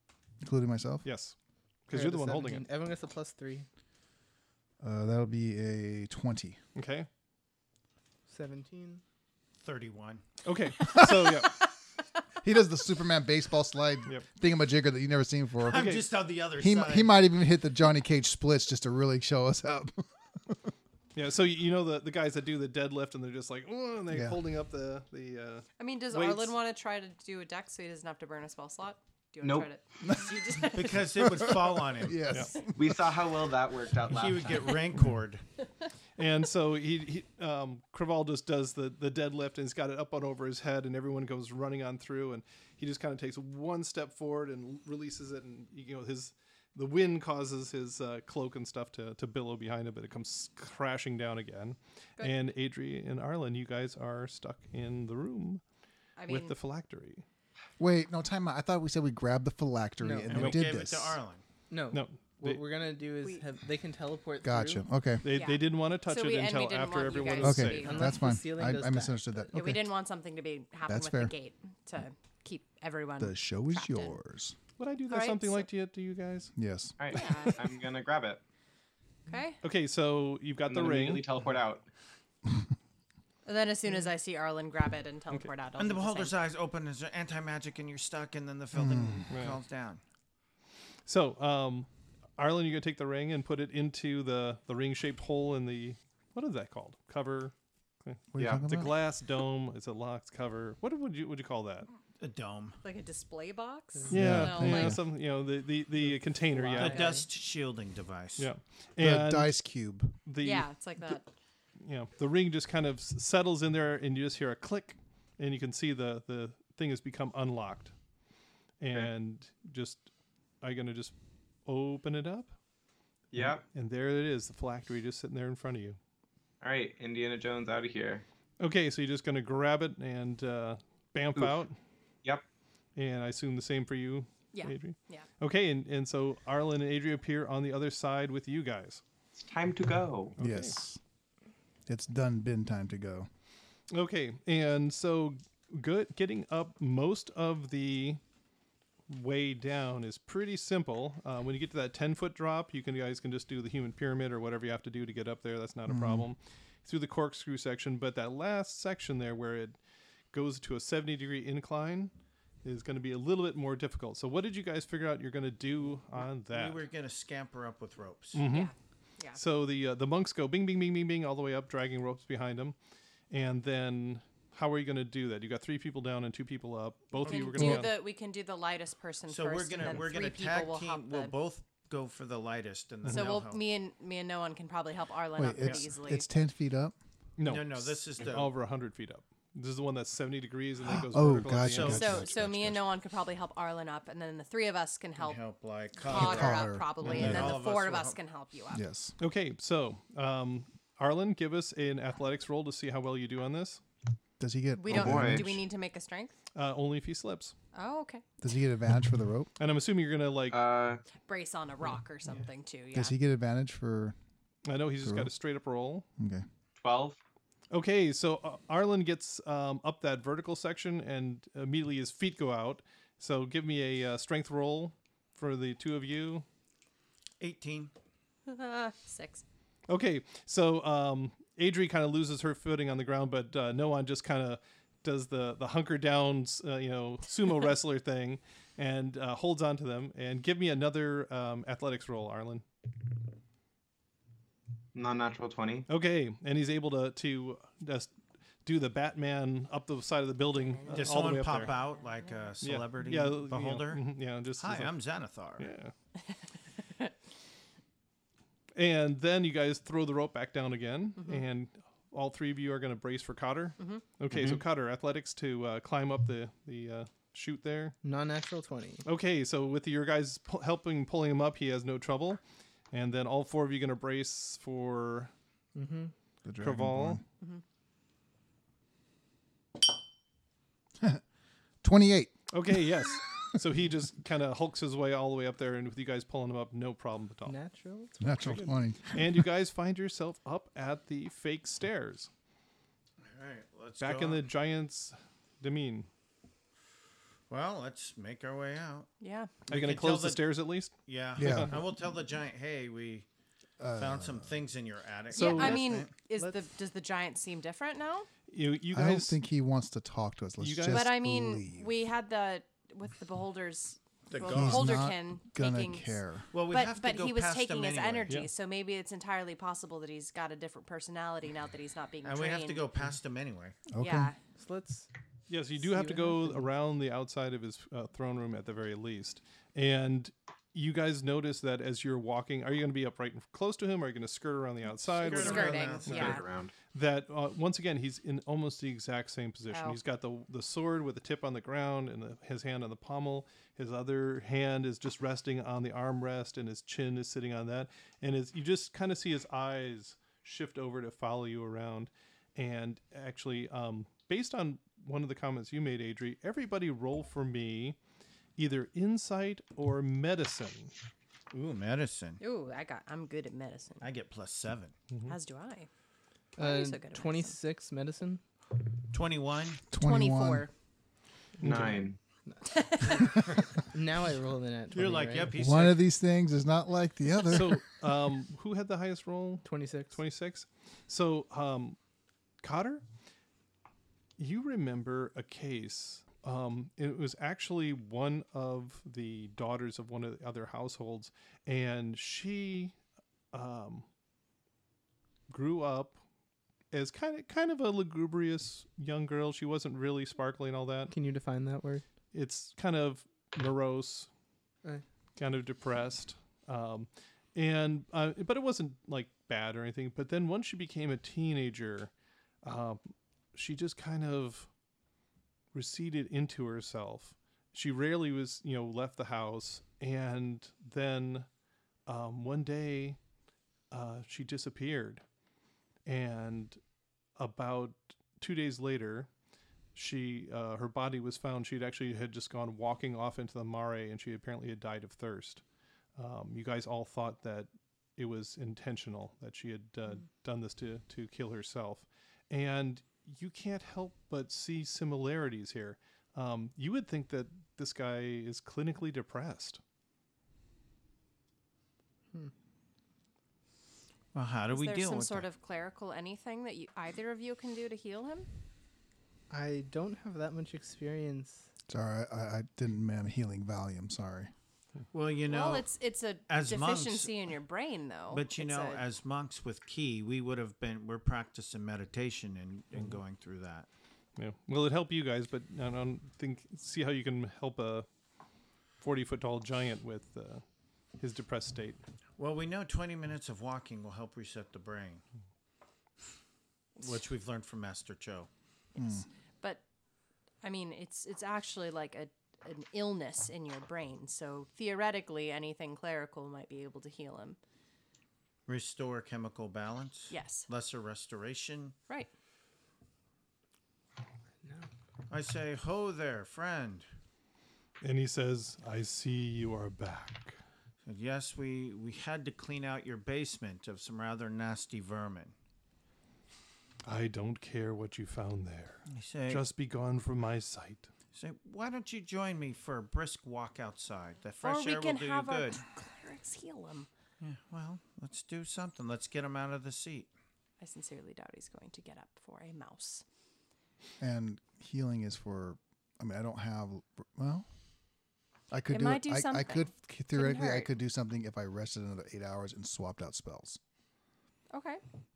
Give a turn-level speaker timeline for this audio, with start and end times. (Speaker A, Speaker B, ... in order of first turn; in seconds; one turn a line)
Speaker A: 0.4-1.1
Speaker B: 1.0-1.4
Speaker B: 1.9-2.7
Speaker C: 1.9-3.7
Speaker A: 4.8-6.6
Speaker B: 6.8-7.1
Speaker C: 8.3-9.0
Speaker D: 9.6-10.3
Speaker B: 10.4-11.6
Speaker A: 10.9-11.5
Speaker A: 12.4-16.0
Speaker D: 15.6-17.2
Speaker B: 15.7-16.1
Speaker A: 16.6-20.7
Speaker B: 21.1-26.6
Speaker A: 24.1-24.4
Speaker E: 25.8-31.5
Speaker F: 29.4-29.7
Speaker A: 30.0-33.0
Speaker D: 30.7-32.2
Speaker B: 32.3-32.5
Speaker E: 32.3-32.6
Speaker F: 32.7-34.8
Speaker D: 34.1-35.4
Speaker B: 36.2-55.6
Speaker E: 56.2-56.6
Speaker B: 56.3-57.2
Speaker A: 57.8-61.2
Speaker C: 60.0-60.5
Speaker D: 60.3-61.4
Speaker B: 60.3-60.6
Speaker C: 61.7-64.8
Speaker B: 61.9-62.6
Speaker A: 64.4-65.2
Speaker B: 65.2-68.1
Speaker E: 65.3-68.2
Speaker A: 67.4-69.9
Speaker C: 67.8-69.5
Speaker E: 69.5-74.2
Speaker A: 70.9-71.3
Speaker A: 73.2-74.6
Speaker B: 74.8-76.5
Speaker E: 75.1-75.7
Speaker A: 76.6-77.0
Speaker F: 77.0-78.4
Speaker E: 77.1-77.6
Speaker E: 79.3-79.6
Speaker B: 79.6-81.2
Speaker F: 80.7-81.8
Speaker E: 83.5-86.4
Speaker D: 85.8-90.0
Speaker A: 88.7-89.3
Speaker B: 89.3-89.6
Speaker B: 91.1-101.9
Speaker A: 98.3-98.9
Speaker F: 98.4-98.7
Speaker D: 102.2-102.8
Speaker E: 102.8-105.0
Speaker C: 104.0-104.6
Speaker B: 104.1-107.0
Speaker A: 104.1-105.0
Speaker C: 106.0-107.2
Speaker D: 106.8-108.5
Speaker B: 108.4-109.5
Speaker A: 109.0-110.2
Speaker B: 110.3-111.2
Speaker E: 110.4-111.3
Speaker B: 111.8-117.9
Speaker B: 118.8-120.1
Speaker B: 120.6-121.1
Speaker B: 121.7-122.5
Speaker F: 123.3-123.6
Speaker B: 123.7-126.0
Speaker F: 126.6-128.2
Speaker B: 128.6-131.8
Speaker F: 131.4-131.6
Speaker B: 133.0-139.0
Speaker E: 134.5-135.3
Speaker F: 139.4-140.4
Speaker B: 140.4-140.8
Speaker A: 140.4-141.0
Speaker A: 141.9-143.3
Speaker B: 143.9-148.2
Speaker B: 149.1-159.8
Speaker A: 155.9-156.3
Speaker B: 160.3-162.1
Speaker B: 162.6-166.9
Speaker D: 166.5-168.4
Speaker B: 168.3-168.7
Speaker E: 168.4-169.4
Speaker B: 169.3-172.8
Speaker B: 173.3-177.9
Speaker E: 177.2-181.3
Speaker D: 177.2-177.9
Speaker D: 179.3-183.6
Speaker B: 183.0-183.3
Speaker E: 183.1-186.3
Speaker A: 185.4-187.0
Speaker B: 187.4-192.2
Speaker D: 187.4-188.5
Speaker A: 190.8-192.8
Speaker D: 191.7-192.3
Speaker E: 191.8-195.4
Speaker D: 195.2-198.2
Speaker E: 196.0-198.8
Speaker A: 196.1-197.6
Speaker B: 197.1-197.5
Speaker A: 198.7-199.2
Speaker B: 199.2-203.8
Speaker A: 204.4-205.6
Speaker E: 204.8-206.4
Speaker F: 204.9-205.5
Speaker B: 206.6-207.6
Speaker E: 207.7-208.2
Speaker A: 208.4-209.5
Speaker B: 209.6-210.6
Speaker F: 210.5-211.0
Speaker E: 211.2-213.2
Speaker A: 212.9-214.2
Speaker B: 214.7-216.1
Speaker A: 215.0-215.3
Speaker A: 216.2-216.4
Speaker F: 216.8-217.2
Speaker B: 217.7-226.4
Speaker D: 227.4-227.9
Speaker E: 228.5-229.4
Speaker B: 229.9-242.7
Speaker F: 244.9-245.9
Speaker B: 245.9-248.1
Speaker B: 248.7-251.7
Speaker E: 250.6-252.5
Speaker D: 250.9-254.0
Speaker B: 252.6-254.9
Speaker D: 254.6-255.7
Speaker B: 255.6-255.9
Speaker E: 256.8-257.1
Speaker B: 258.8-268.0
Speaker E: 261.2-261.4
Speaker E: 263.8-264.0
Speaker F: 264.3-264.6
Speaker C: 268.0-269.1
Speaker B: 269.1-275.3
Speaker C: 275.8-276.1
Speaker A: 276.4-277.2
Speaker B: 276.6-277.2
Speaker A: 281.8-282.8
Speaker B: 282.5-287.6
Speaker C: 287.5-288.9
Speaker A: 288.2-289.4
Speaker B: 289.1-292.3
Speaker D: 293.2-294.4
Speaker B: 294.0-296.1
Speaker D: 297.5-299.1
Speaker E: 299.2-299.6
Speaker D: 299.7-300.4
Speaker B: 299.7-301.8
Speaker D: 301.1-303.3
Speaker A: 301.4-301.9
Speaker A: 303.8-304.6
Speaker D: 304.0-306.1
Speaker E: 305.3-308.3
Speaker B: 305.3-305.9
Speaker B: 308.5-309.4
Speaker A: 308.9-311.9
Speaker B: 310.6-311.1
Speaker E: 310.9-322.9
Speaker D: 314.3-315.0
Speaker A: 314.5-316.5
Speaker D: 316.5-318.4
Speaker D: 322.2-323.9
Speaker A: 323.9-324.3
Speaker E: 324.0-324.4
Speaker C: 324.6-325.1
Speaker B: 325.5-358.0
Speaker C: 325.8-326.7
Speaker D: 335.1-336.4
Speaker E: 335.2-336.4
Speaker F: 336.1-336.7
Speaker E: 339.7-340.0
Speaker B: 358.6-360.9
Speaker D: 361.5-362.4
Speaker E: 362.4-364.1
Speaker D: 364.0-364.9
Speaker E: 365.2-365.9
Speaker E: 366.6-367.6
Speaker C: 366.6-368.4
Speaker D: 369.1-369.9
Speaker A: 369.9-370.7
Speaker E: 370.0-370.7
Speaker B: 371.6-372.0
Speaker F: 371.6-372.2
Speaker C: 372.5-373.3
Speaker E: 372.6-373.4
Speaker C: 373.8-375.5
Speaker D: 374.9-376.1
Speaker A: 375.5-377.8
Speaker B: 377.5-382.0
Speaker C: 379.6-380.2
Speaker B: 382.6-383.0
Speaker B: 384.4-392.9
Speaker B: 393.5-394.1
Speaker B: 395.5-396.2
Speaker B: 396.9-401.1
Speaker C: 401.1-402.1
Speaker B: 402.3-404.3
Speaker B: 405.4-412.1
Speaker B: 412.6-413.0
Speaker B: 413.5-414.7
Speaker B: 415.7-421.5
Speaker B: 422.1-423.2
Speaker B: 423.9-425.2
Speaker B: 426.1-426.8
Speaker B: 427.4-429.3
Speaker B: 429.9-435.6
Speaker B: 436.2-449.8
Speaker D: 454.3-455.5
Speaker E: 454.7-458.5
Speaker C: 459.5-461.7
Speaker A: 461.9-464.5
Speaker D: 465.1-465.9
Speaker E: 465.4-469.0
Speaker D: 466.5-467.4
Speaker D: 468.3-473.9
Speaker B: 474.4-478.1
Speaker B: 479.0-480.6
Speaker B: 481.2-482.0
Speaker D: 482.4-485.2
Speaker D: 487.0-488.5
Speaker A: 489.0-489.2
Speaker E: 489.0-489.8
Speaker E: 490.6-497.6
Speaker D: 498.7-502.0
Speaker E: 500.3-500.7
Speaker D: 505.3-507.1
Speaker B: 508.0-510.6
Speaker D: 511.1-515.5
Speaker B: 517.0-521.1
Speaker D: 519.1-519.6
Speaker D: 521.3-525.8
Speaker E: 524.6-527.1
Speaker D: 527.4-530.3
Speaker E: 530.8-533.2
Speaker A: 534.2-537.7
Speaker A: 538.7-543.8
Speaker E: 538.9-540.9
Speaker E: 544.7-545.0